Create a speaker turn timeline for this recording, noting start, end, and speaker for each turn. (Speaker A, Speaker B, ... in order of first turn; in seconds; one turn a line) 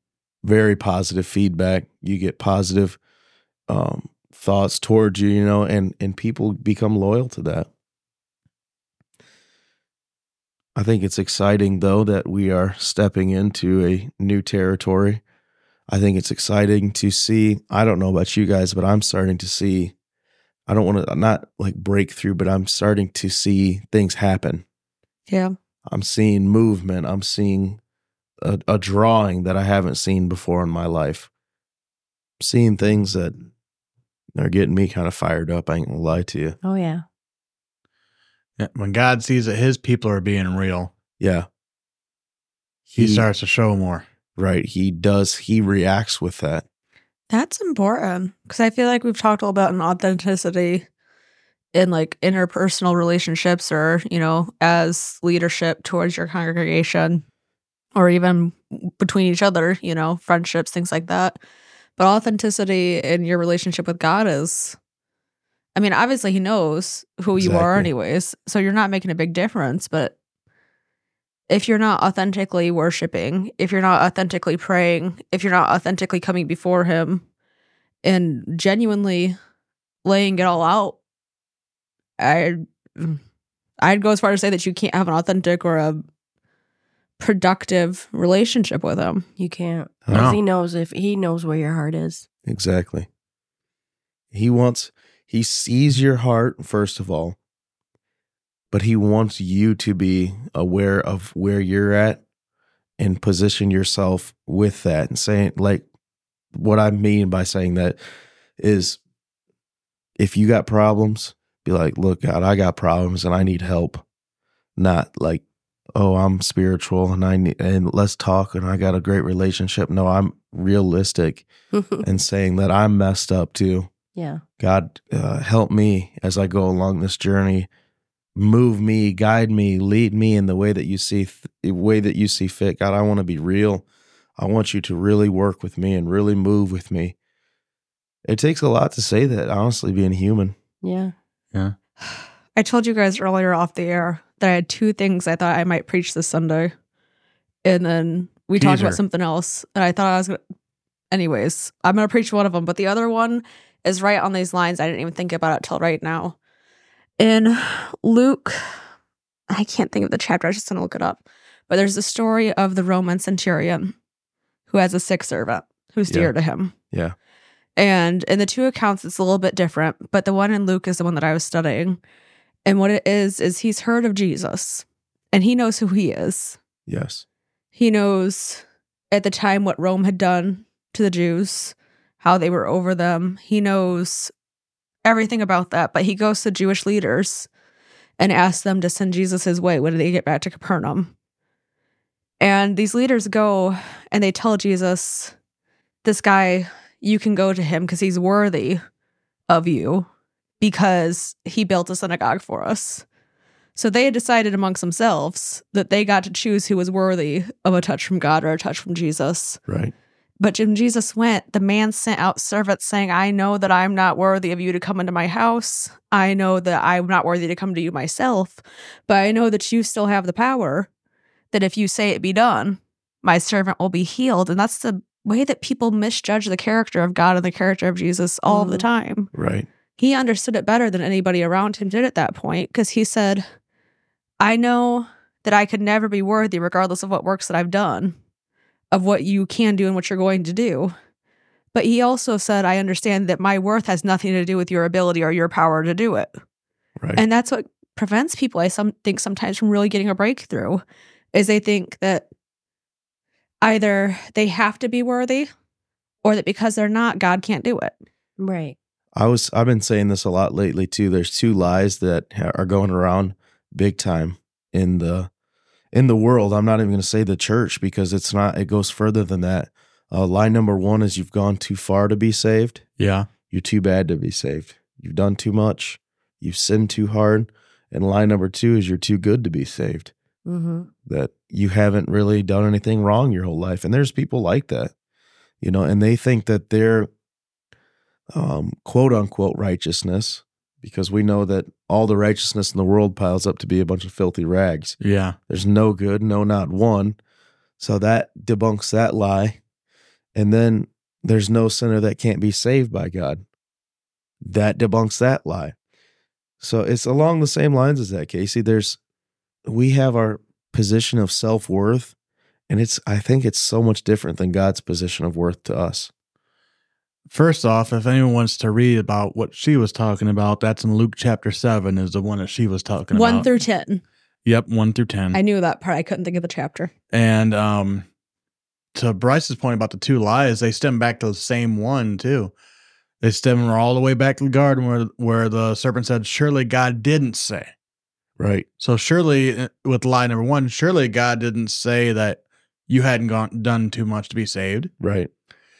Speaker A: 0.4-3.0
Speaker A: 3.7-7.7
Speaker A: 10.7-15.2
Speaker A: 15.9-19.9
Speaker A: 20.7-24.6
Speaker B: 25.3-25.5
Speaker A: 25.9-27.8
Speaker A: 28.4-31.3
Speaker A: 32.4-33.4
Speaker A: 34.3-36.6
Speaker C: 36.6-37.0
Speaker D: 38.6-40.9
Speaker A: 41.2-41.5
Speaker D: 42.9-44.0
Speaker A: 43.0-43.2
Speaker A: 44.4-46.6
Speaker B: 47.3-50.9
Speaker B: 51.7-57.2
Speaker B: 57.9-61.4
Speaker B: 62.0-64.8
Speaker B: 65.7-70.1
Speaker A: 67.3-67.9
Speaker B: 71.5-77.2
Speaker B: 78.0-79.3
Speaker B: 80.0-81.0
Speaker B: 82.2-83.2
Speaker B: 83.8-86.0
Speaker B: 87.2-89.2
Speaker C: 89.4-92.2
Speaker D: 90.1-90.4
Speaker A: 92.4-93.1
Speaker A: 94.3-97.4
Speaker A: 98.7-102.2
Speaker A: 103.0-105.8
Speaker A: 106.5-108.0
Speaker A: 108.6-109.0
Speaker A: 110.2-114.0
Speaker A: 114.8-115.4
Speaker A: 115.9-121.5
Speaker C: 121.7-122.0
Speaker A: 122.0-123.9
Speaker C: 124.1-124.4
Speaker A: 124.6-127.7
Speaker A: 128.3-133.8
Speaker A: 134.4-137.1
Speaker A: 138.2-140.6
Speaker C: 140.8-141.1
Speaker B: 142.1-146.7
Speaker B: 147.6-150.4
Speaker D: 148.6-149.0
Speaker B: 151.1-156.4
Speaker B: 157.2-158.6
Speaker B: 159.5-163.9
Speaker B: 164.7-166.7
Speaker B: 167.8-172.0
Speaker B: 172.7-176.6
Speaker A: 176.9-177.2
Speaker B: 177.7-184.3
Speaker B: 185.0-187.5
Speaker B: 188.2-191.1
Speaker B: 192.4-195.3
Speaker B: 196.0-198.8
Speaker B: 199.5-200.1
Speaker B: 200.6-203.0
Speaker B: 203.8-209.6
Speaker A: 209.7-209.9
Speaker B: 210.4-220.9
Speaker B: 221.5-229.3
Speaker C: 228.5-228.9
Speaker A: 229.3-229.7
Speaker B: 230.0-233.4
Speaker B: 234.4-238.2
Speaker B: 238.9-240.9
Speaker B: 241.7-246.3
Speaker B: 247.2-250.8
Speaker B: 251.3-252.3
Speaker B: 253.6-255.5
Speaker B: 256.2-257.9
Speaker C: 258.4-258.8
Speaker A: 259.1-265.3
Speaker A: 265.9-272.8
Speaker D: 273.0-273.3
Speaker A: 273.5-280.1
Speaker C: 280.4-280.9
Speaker A: 281.1-284.9
Speaker A: 285.6-287.1
Speaker A: 288.3-295.0
Speaker D: 295.0-295.4
Speaker A: 295.5-297.2
Speaker A: 297.8-299.6
Speaker A: 300.3-303.4
Speaker A: 304.4-305.7
Speaker A: 306.6-309.0
Speaker A: 309.7-312.1
Speaker A: 312.7-316.1
Speaker D: 317.3-323.5
Speaker B: 323.1-324.0
Speaker D: 324.4-325.4
Speaker B: 325.3-326.9
Speaker D: 327.1-328.1
Speaker D: 328.9-332.5
Speaker D: 333.2-337.7
Speaker A: 338.4-338.6
Speaker D: 338.8-344.9
Speaker A: 345.0-345.3